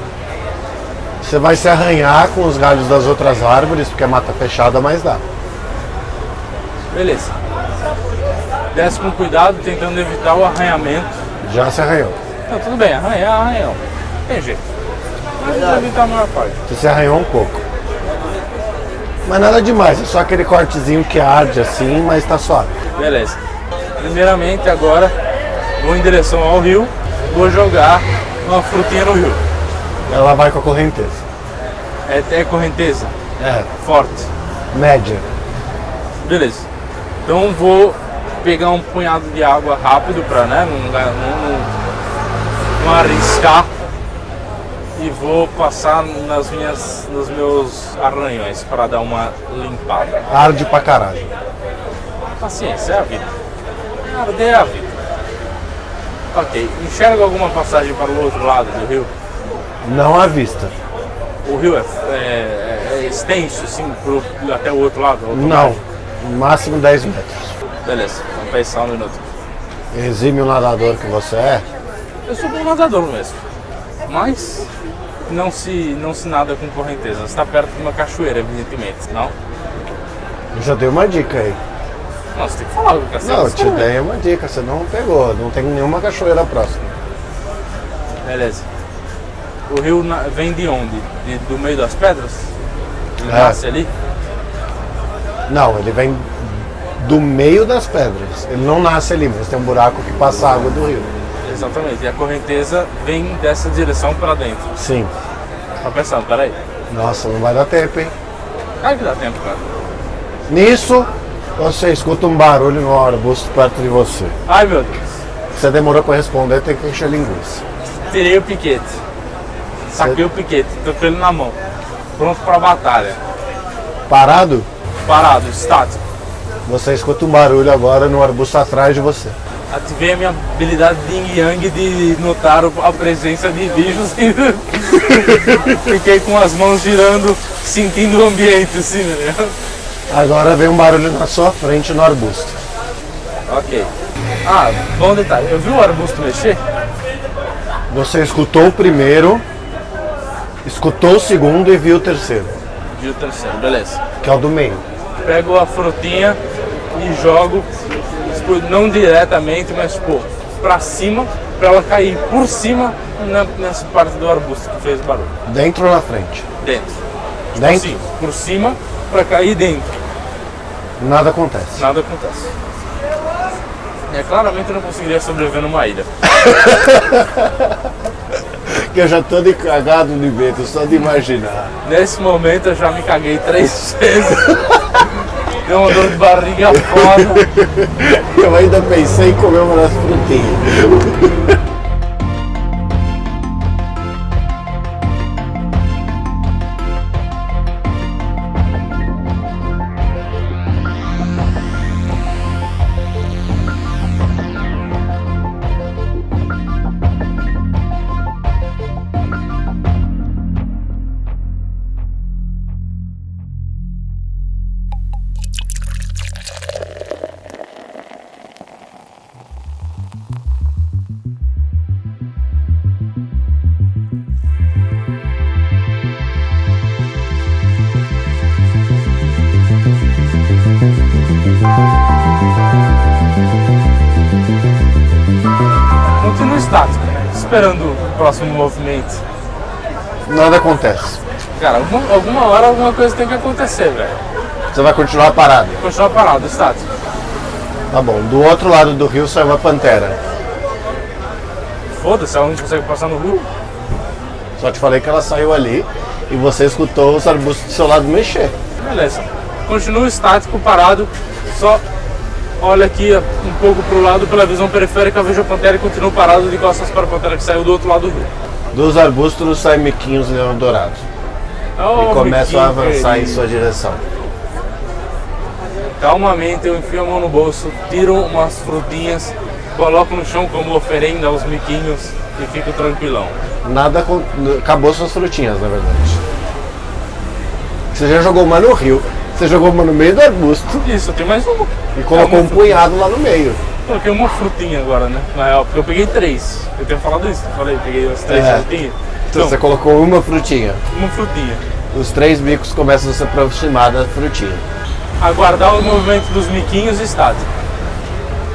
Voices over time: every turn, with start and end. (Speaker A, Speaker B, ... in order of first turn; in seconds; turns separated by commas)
Speaker A: 1.2-5.2, Speaker B: 6.9-7.3, Speaker B: 8.7-11.2, Speaker A: 11.4-12.2, Speaker B: 12.5-14.6, Speaker B: 15.4-16.6, Speaker A: 16.7-17.6, Speaker A: 19.2-22.7, Speaker B: 22.9-23.4, Speaker B: 24.0-25.1, Speaker B: 25.8-29.4, Speaker A: 30.1-31.2, Speaker B: 32.0-33.1, Speaker A: 33.4-33.7, Speaker B: 33.8-34.3, Speaker A: 34.7-35.2, Speaker B: 36.2-36.6, Speaker B: 37.2-41.7, Speaker B: 42.8-43.7, Speaker B: 45.0-50.2, Speaker A: 50.3-51.3, Speaker B: 52.4-53.3, Speaker B: 54.0-55.0, Speaker B: 56.3-59.1, Speaker A: 59.8-60.7, Speaker B: 61.4-65.8, Speaker A: 65.3-67.5, Speaker B: 67.8-69.2, Speaker A: 69.9-71.6, Speaker B: 72.2-73.4, Speaker B: 74.0-74.7, Speaker B: 75.3-79.3, Speaker A: 80.5-81.6, Speaker B: 82.3-83.9, Speaker A: 83.2-86.9, Speaker B: 88.2-88.7, Speaker B: 89.7-92.5, Speaker B: 93.2-93.9, Speaker A: 93.2-93.6, Speaker A: 95.5-101.1, Speaker B: 101.4-104.7, Speaker A: 104.7-105.1, Speaker B: 105.8-106.6, Speaker A: 106.9-108.1, Speaker B: 108.8-109.7, Speaker A: 110.5-114.3, Speaker B: 114.5-115.2, Speaker A: 115.5-117.6, Speaker B: 118.1-119.0, Speaker B: 119.9-121.6, Speaker B: 122.2-123.2, Speaker A: 124.1-124.7, Speaker B: 125.0-126.0, Speaker A: 126.7-129.3, Speaker B: 129.7-139.5, Speaker A: 140.1-142.6, Speaker B: 143.5-143.9, Speaker B: 144.4-146.6, Speaker A: 147.9-149.4, Speaker A: 150.6-152.5, Speaker B: 152.9-154.0, Speaker A: 154.2-154.8, Speaker B: 155.2-156.4, Speaker B: 156.9-157.7, Speaker B: 158.2-165.3, Speaker A: 165.4-166.4, Speaker B: 166.6-167.0, Speaker A: 167.5-167.9, Speaker B: 167.5-170.0, Speaker A: 171.0-171.8, Speaker B: 171.8-172.5, Speaker B: 174.1-176.1, Speaker A: 176.2-177.8, Speaker A: 178.7-181.7, Speaker B: 181.8-184.6, Speaker B: 185.6-187.4, Speaker A: 186.7-191.3, Speaker B: 236.2-239.2, Speaker A: 240.3-241.2, Speaker B: 241.6-244.2, Speaker A: 244.7-245.8, Speaker B: 245.8-246.8, Speaker A: 247.9-250.2, Speaker B: 251.9-253.5, Speaker A: 254.6-258.6, Speaker B: 258.8-261.8, Speaker B: 262.6-268.3, Speaker A: 268.7-271.0, Speaker B: 271.8-273.4, Speaker A: 272.0-274.0, Speaker B: 276.0-283.4, Speaker A: 283.6-286.2, Speaker A: 287.9-290.9, Speaker B: 290.8-292.8, Speaker A: 291.9-293.6, Speaker B: 293.8-299.6, Speaker A: 298.3-298.7, Speaker A: 299.3-300.8, Speaker B: 300.9-301.6, Speaker A: 301.9-304.6, Speaker B: 305.2-307.4